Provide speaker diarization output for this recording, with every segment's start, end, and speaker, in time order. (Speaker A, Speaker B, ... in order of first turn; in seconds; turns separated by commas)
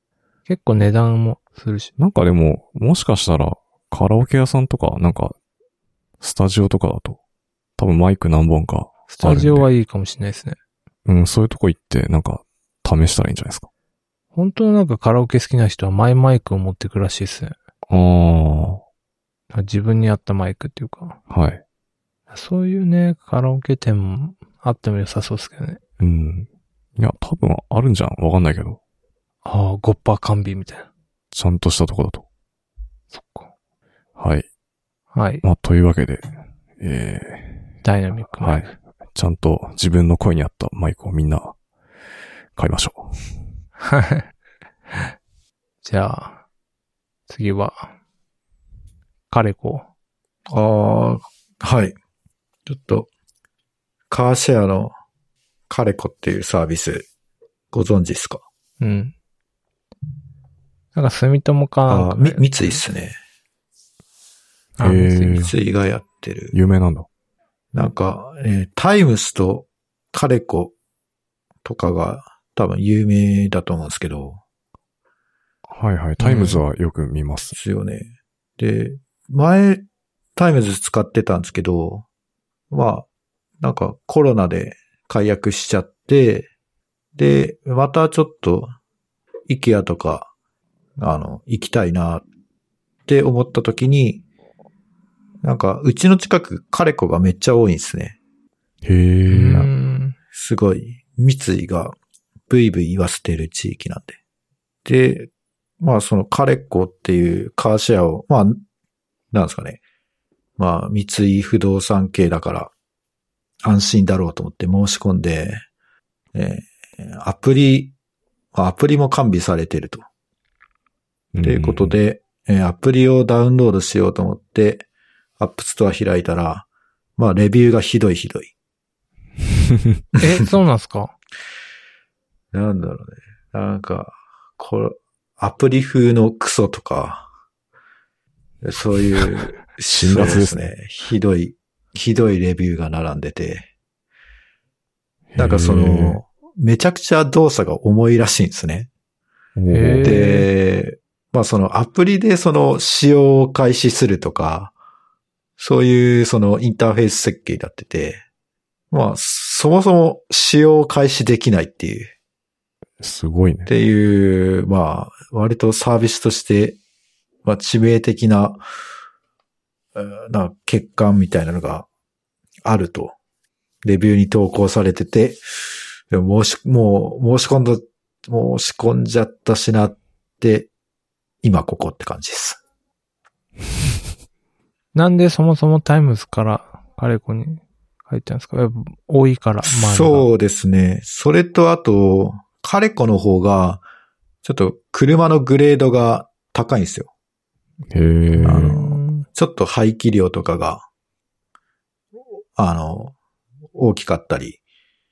Speaker A: 0.5-1.9, Speaker B: 2.0-5.3, Speaker B: 6.2-7.2, Speaker B: 7.8-9.7, Speaker A: 9.1-10.6, Speaker B: 11.1-13.7, Speaker A: 14.3-17.5, Speaker B: 17.9-18.8, Speaker A: 19.5-21.2, Speaker B: 21.3-21.6, Speaker A: 22.3-25.8, Speaker B: 26.0-28.8, Speaker A: 29.4-30.9, Speaker B: 31.3-32.2, Speaker A: 33.1-33.5, Speaker B: 34.2-34.5, Speaker A: 35.1-35.4, Speaker B: 35.4-37.6, Speaker A: 37.8-38.7, Speaker B: 38.4-41.5, Speaker B: 42.5-43.2, Speaker A: 43.9-44.2, Speaker A: 45.8-46.4, Speaker A: 47.3-47.9, Speaker A: 49.3-49.9, Speaker C: 50.5-52.0, Speaker C: 52.6-53.1, Speaker C: 54.1-54.9, Speaker C: 55.7-57.0, Speaker C: 57.7-58.4, Speaker A: 58.8-59.1, Speaker A: 60.9-62.8, Speaker C: 61.9-63.2, Speaker A: 64.8-65.5, Speaker B: 64.8-65.5, Speaker C: 65.4-66.5, Speaker B: 66.5-67.1, Speaker C: 67.7-70.7, Speaker C: 71.6-74.4, Speaker B: 75.7-77.5, Speaker A: 76.2-76.6, Speaker C: 77.5-79.8, Speaker C: 80.3-82.0, Speaker C: 82.7-83.0, Speaker C: 83.6-86.5, Speaker C: 87.1-88.7, Speaker C: 89.5-90.3, Speaker C: 91.0-92.2, Speaker C: 93.1-94.2, Speaker C: 95.4-98.2, Speaker B: 98.8-99.7, Speaker A: 99.3-100.1, Speaker C: 100.3-102.0, Speaker C: 102.5-104.2, Speaker C: 104.8-108.6, Speaker C: 109.3-109.8, Speaker C: 110.6-112.7, Speaker C: 113.6-115.6, Speaker C: 116.3-117.9, Speaker C: 118.5-120.0, Speaker B: 121.3-121.9, Speaker C: 121.4-124.8, Speaker C: 125.4-128.5, Speaker B: 129.7-130.0, Speaker A: 130.2-131.1, Speaker C: 132.5-137.3, Speaker C: 138.6-143.7, Speaker B: 139.8-140.7, Speaker B: 145.3-146.2, Speaker C: 145.4-148.9, Speaker B: 149.6-150.1, Speaker A: 149.7-150.5, Speaker C: 150.0-154.7, Speaker C: 155.6-158.2, Speaker C: 158.9-162.1, Speaker B: 163.0-163.7, Speaker C: 163.7-166.8, Speaker C: 167.4-168.6, Speaker C: 169.9-171.9, Speaker C: 172.6-173.1, Speaker C: 173.8-180.7, Speaker C: 181.4-182.6, Speaker A: 184.9-190.3, Speaker C: 189.6-193.8, Speaker C: 194.4-197.1, Speaker B: 197.9-198.7, Speaker A: 198.3-199.2, Speaker C: 198.4-200.8, Speaker C: 202.5-203.1, Speaker C: 203.7-204.6